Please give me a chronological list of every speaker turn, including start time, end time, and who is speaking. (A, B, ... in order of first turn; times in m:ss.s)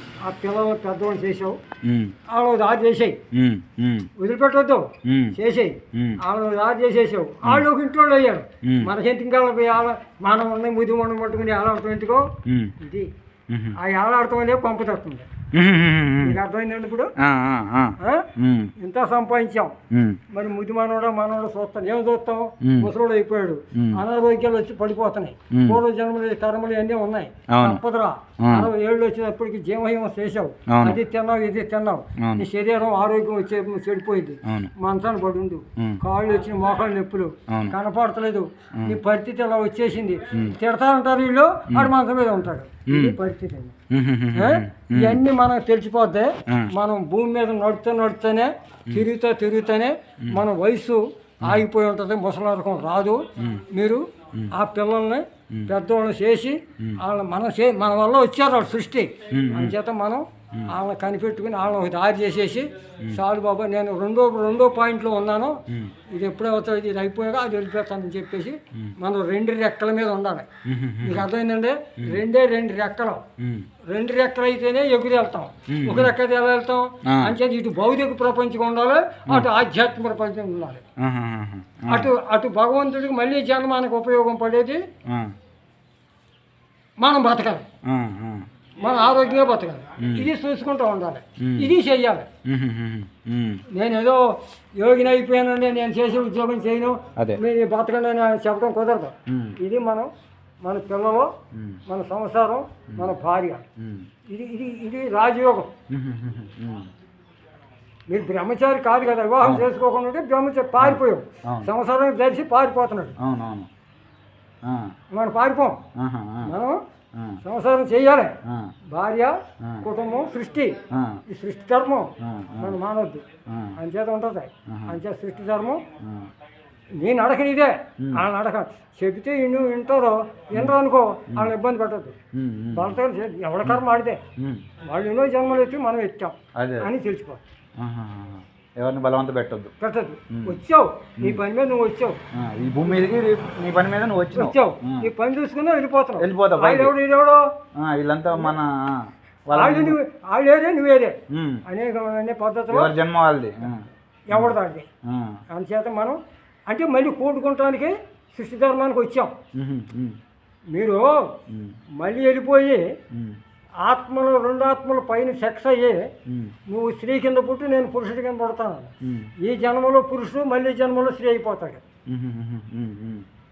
0:00.2-0:01.6 A
0:01.8-0:02.1 B
0:02.3-0:03.2 A
0:03.3-0:04.1 B
0:04.2-0:13.1 A
0:05.0-0:05.3 B
0:05.9-0:06.2 B
0:08.6-0:08.9 B
0:12.4-0:12.7 B
0:13.5-0:13.8 B
0:13.8-0:15.3 A
0:15.5-0:16.4 B
0:16.2-0:17.1 A
0:17.2-0:18.7 B
0:18.0-0:19.8 A
0:19.9-0:20.2 B
0:20.3-0:43.7 A
0:22.6-0:22.9 B
0:23.7-0:24.0 B
0:25.5-0:25.8 B
0:27.5-0:27.8 B
0:28.4-0:28.7 B
0:30.7-0:31.0 B
0:32.2-0:32.4 B
0:34.4-0:34.7 B
0:37.5-0:37.7 B
0:42.9-0:43.2 B
0:43.9-0:45.2 B
0:44.3-1:10.5 A
0:53.4-0:53.6 B
0:59.3-0:59.8 B
1:10.6-1:11.3 B
1:11.0-1:13.2 A
1:13.4-1:13.7 B
1:13.9-1:20.8 A
1:15.7-1:16.1 B
1:17.1-1:17.4 B
1:21.0-1:22.1 B
1:21.9-1:24.8 A
1:25.1-1:25.3 B
1:27.0-1:27.6 A
1:27.9-1:28.5 B
1:28.8-1:32.3 A
1:30.0-1:30.3 B
1:31.4-1:31.7 B
1:32.4-1:33.6 B
1:33.7-1:40.1 A
1:39.3-1:39.5 B
1:40.6-1:41.3 A
1:41.5-1:41.8 B
1:41.9-1:43.6 A
1:43.8-1:44.1 B
1:44.3-1:45.7 A
1:45.9-1:46.9 B
1:48.1-1:53.2 A
1:50.8-1:51.7 B
1:53.2-1:53.7 B
1:54.6-1:54.9 B
1:55.1-1:55.8 A
1:56.0-1:56.5 B
1:56.4-1:56.8 A
1:57.1-1:57.4 B
1:57.4-1:58.4 A
1:58.4-1:58.7 B
1:58.9-2:03.2 A
2:00.9-2:01.2 B
2:02.2-2:02.8 B
2:03.5-2:03.7 B
2:03.8-2:05.8 A
2:04.7-2:05.0 B
2:06.0-2:06.3 B
2:07.0-2:12.1 A
2:12.3-2:13.0 B
2:12.7-2:14.2 A
2:14.4-2:14.6 B
2:14.8-2:17.4 A
2:16.6-2:16.9 B
2:17.8-2:19.7 B
2:19.8-2:22.2 A
2:20.3-2:20.6 B
2:22.3-2:25.1 B
2:24.4-2:27.6 A
2:26.2-2:26.9 B
2:27.7-2:30.0 B
2:29.5-2:32.9 A
2:31.3-2:31.6 B
2:32.7-2:34.5 B
2:34.3-2:34.9 A
2:35.0-2:35.4 B
2:35.5-2:39.4 A
2:39.5-2:40.2 B
2:40.7-2:41.4 A
2:41.5-2:41.8 B
2:42.0-2:42.8 A
2:43.1-2:43.4 B
2:43.8-2:46.1 A
2:46.3-2:46.5 B
2:46.7-2:51.8 A
2:49.0-2:49.3 B
2:52.1-2:53.2 B